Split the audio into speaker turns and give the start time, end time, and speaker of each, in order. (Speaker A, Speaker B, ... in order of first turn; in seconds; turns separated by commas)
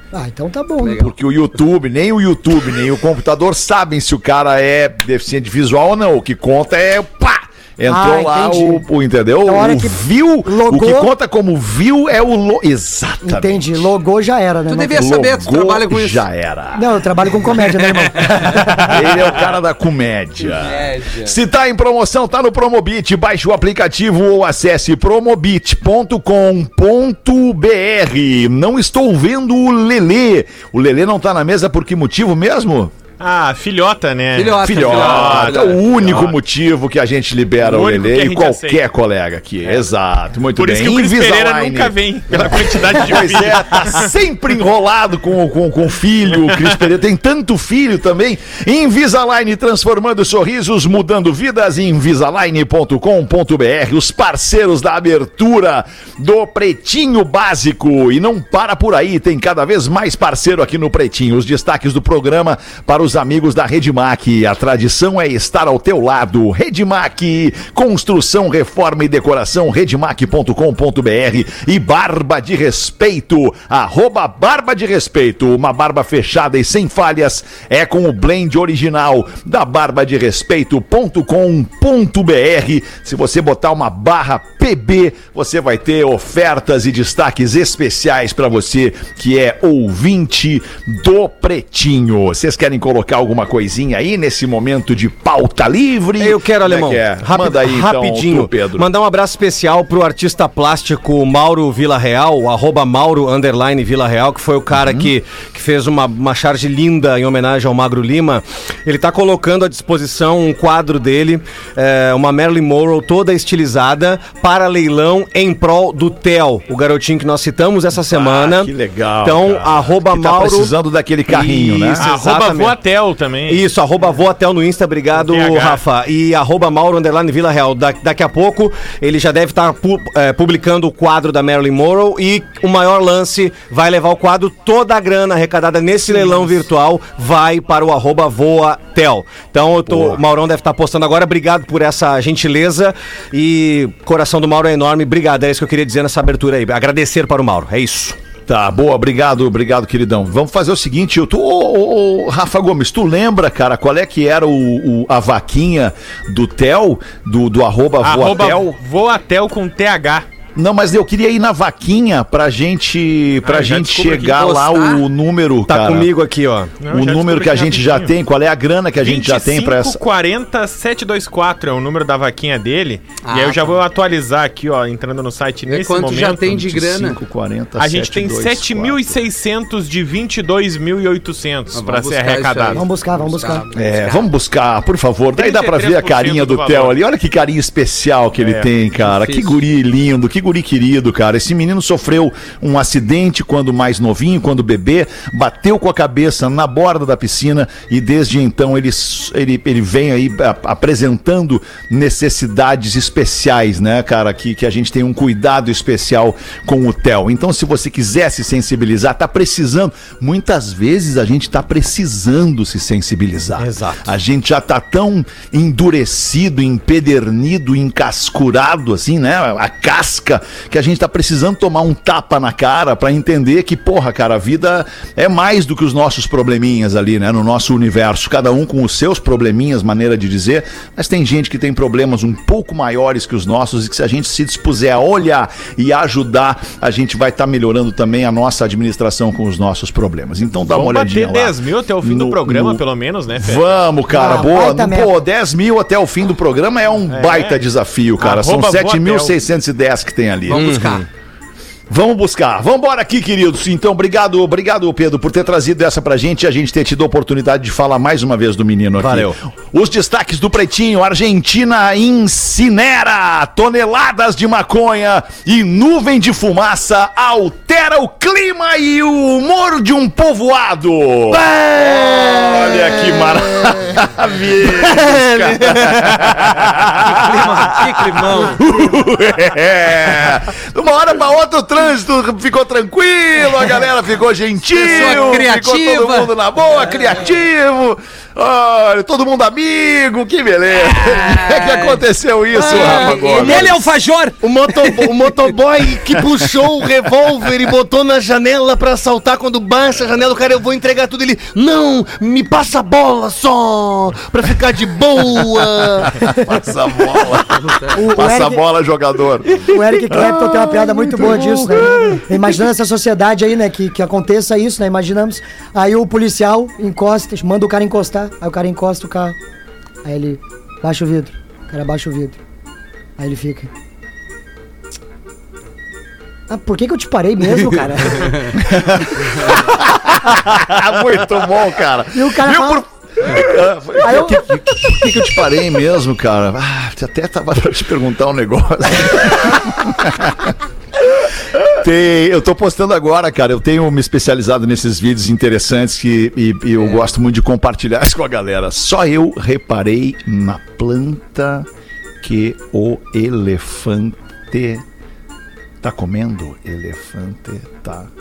Speaker A: 0.1-1.1, Speaker B: 0.9-13.9, Speaker A: 7.9-8.8, Speaker A: 9.4-11.1, Speaker A: 13.2-15.1, Speaker C: 14.7-16.2, Speaker B: 14.9-17.0, Speaker A: 16.7-19.1, Speaker C: 17.9-18.7, Speaker B: 18.4-32.9, Speaker C: 20.4-21.4, Speaker D: 33.2-36.3, Speaker C: 34.4-35.8, Speaker B: 34.6-98.9, Speaker D: 37.6-38.8, Speaker D: 40.6-44.1, Speaker E: 96.2-120.7, Speaker B: 104.7-105.1, Speaker B: 118.1-122.1, Speaker E: 121.3-122.8, Speaker D: 122.0-123.6, Speaker E: 123.5-148.2, Speaker D: 125.2-125.8, Speaker B: 139.8-140.2, Speaker B: 148.5-158.7, Speaker D: 158.0-160.3, Speaker B: 160.6-166.1, Speaker D: 163.4-164.4, Speaker C: 164.3-165.1, Speaker E: 165.7-166.7, Speaker D: 166.8-168.1, Speaker B: 166.9-170.0, Speaker D: 169.0-176.5, Speaker C: 173.2-173.8, Speaker C: 175.7-177.2, Speaker B: 176.4-179.2, Speaker D: 177.8-182.8, Speaker C: 181.7-184.2, Speaker A: 182.7-183.7, Speaker B: 183.7-242.8, Speaker D: 185.4-187.0, Speaker D: 188.4-188.7, Speaker C: 189.1-189.5, Speaker E: 213.6-214.1, Speaker D: 240.7-243.7, Speaker B: 243.4-250.8, Speaker A: 244.1-245.2, Speaker D: 247.1-247.6, Speaker D: 248.2-249.3, Speaker C: 250.5-251.1, Speaker E: 250.5-251.1, Speaker B: 251.9-293.8, Speaker E: 259.0-259.4, Speaker E: 271.3-273.7, Speaker E: 274.8-278.6, Speaker C: 284.7-286.3, Speaker C: 290.9-292.0, Speaker C: 292.5-295.1, Speaker E: 293.4-293.8, Speaker E: 294.4-306.2, Speaker B: 306.0-311.9, Speaker C: 307.5-308.0, Speaker A: 307.9-308.6, Speaker A: 309.6-319.4, Speaker E: 310.2-312.2, Speaker A: 320.0-322.4, Speaker A: 323.2-323.7, Speaker A: 326.5-328.6, Speaker B: 328.5-340.6, Speaker A: 332.1-332.8, Speaker A: 334.0-334.4, Speaker B: 341.1-351.7, Speaker C: 346.8-347.1, Speaker B: 352.2-354.9, Speaker B: 355.8-358.1